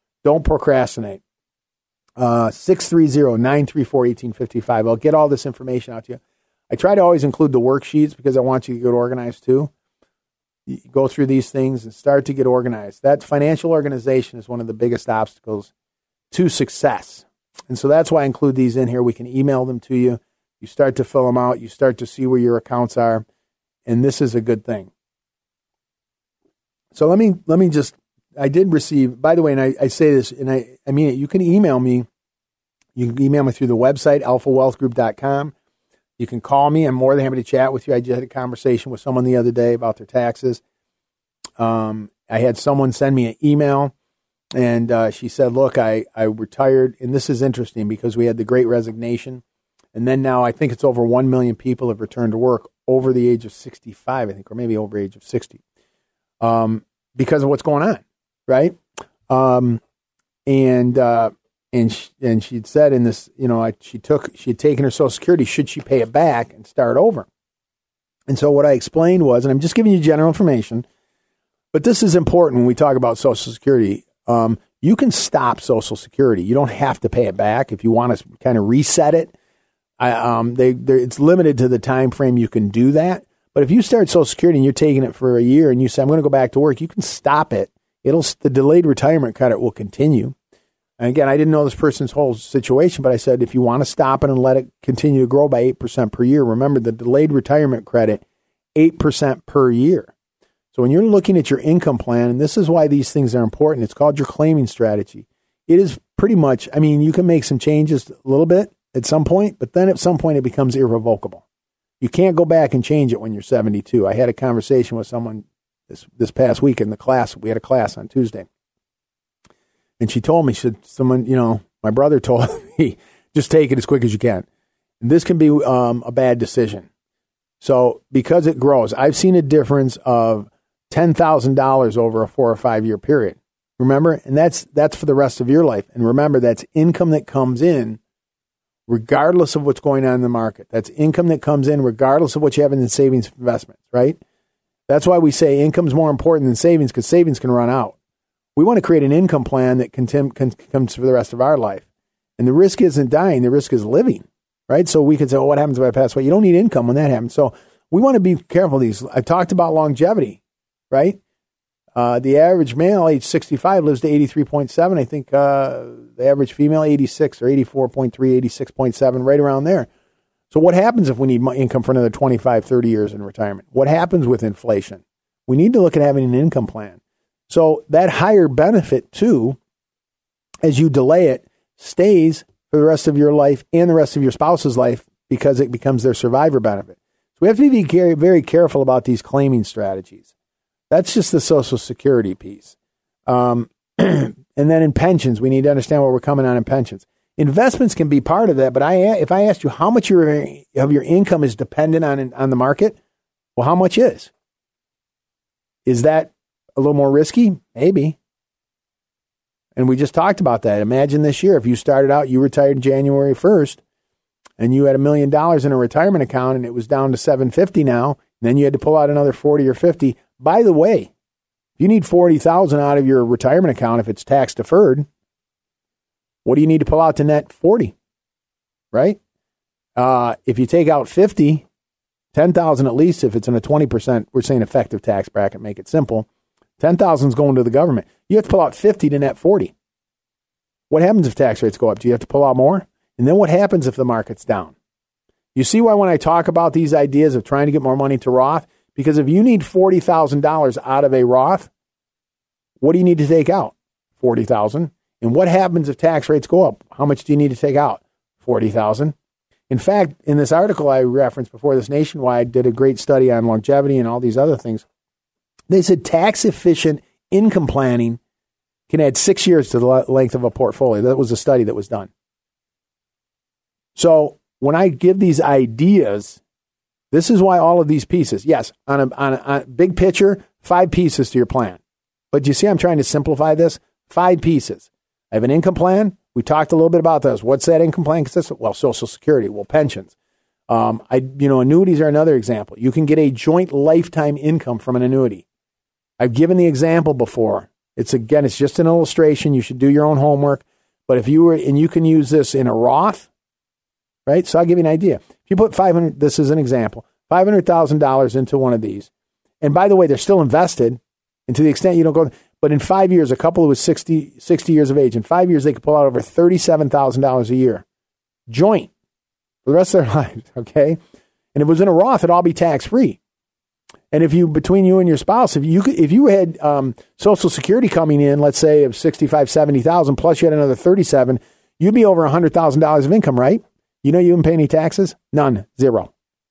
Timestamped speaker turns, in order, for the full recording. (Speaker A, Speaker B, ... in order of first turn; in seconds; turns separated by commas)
Speaker A: 0.2-1.2, Speaker A: 2.2-9.7, Speaker A: 10.7-15.7, Speaker A: 16.3-23.2, Speaker A: 23.9-24.9, Speaker A: 26.9-32.1, Speaker A: 33.0-35.5, Speaker A: 36.2-40.6, Speaker A: 41.6-43.9, Speaker A: 44.5-49.4, Speaker A: 49.9-55.6, Speaker A: 56.4-58.8, Speaker A: 59.3-59.8, Speaker A: 60.5-67.3, Speaker A: 68.3-70.8, Speaker A: 71.7-79.3, Speaker A: 80.0-90.3, Speaker A: 91.0-98.2, Speaker A: 98.8-100.1, Speaker A: 100.7-111.4, Speaker A: 112.0-118.5, Speaker A: 120.0-124.4, Speaker A: 125.0-126.9, Speaker A: 127.6-138.0, Speaker A: 138.9-144.2, Speaker A: 144.9-147.9, Speaker A: 148.6-151.8, Speaker A: 152.4-160.4, Speaker A: 160.9-161.2, Speaker A: 161.9-169.9, Speaker A: 170.5-177.0, Speaker A: 177.5-179.6, Speaker A: 180.6-190.2, Speaker A: 190.9-192.7, Speaker A: 193.3-202.9, Speaker A: 203.6-204.3, Speaker A: 205.8-208.2, Speaker A: 209.8-213.8, Speaker A: 214.6-221.1, Speaker A: 221.8-225.1, Speaker A: 226.4-227.9, Speaker A: 228.9-229.2, Speaker A: 229.9-231.6, Speaker A: 232.3-236.2, Speaker A: 236.8-239.7, Speaker A: 240.9-244.7, Speaker A: 245.5-251.7, Speaker A: 252.8-259.1, Speaker A: 259.7-264.8, Speaker A: 265.7-268.2, Speaker A: 268.9-272.1, Speaker A: 273.9-276.4, Speaker A: 277.1-281.8, Speaker A: 282.3-290.1, Speaker A: 290.7-295.4, Speaker A: 296.2-303.3, Speaker A: 304.2-309.1, Speaker A: 309.6-317.8, Speaker A: 318.5-318.9, Speaker A: 319.6-321.0, Speaker A: 321.5-323.2, Speaker A: 324.1-336.1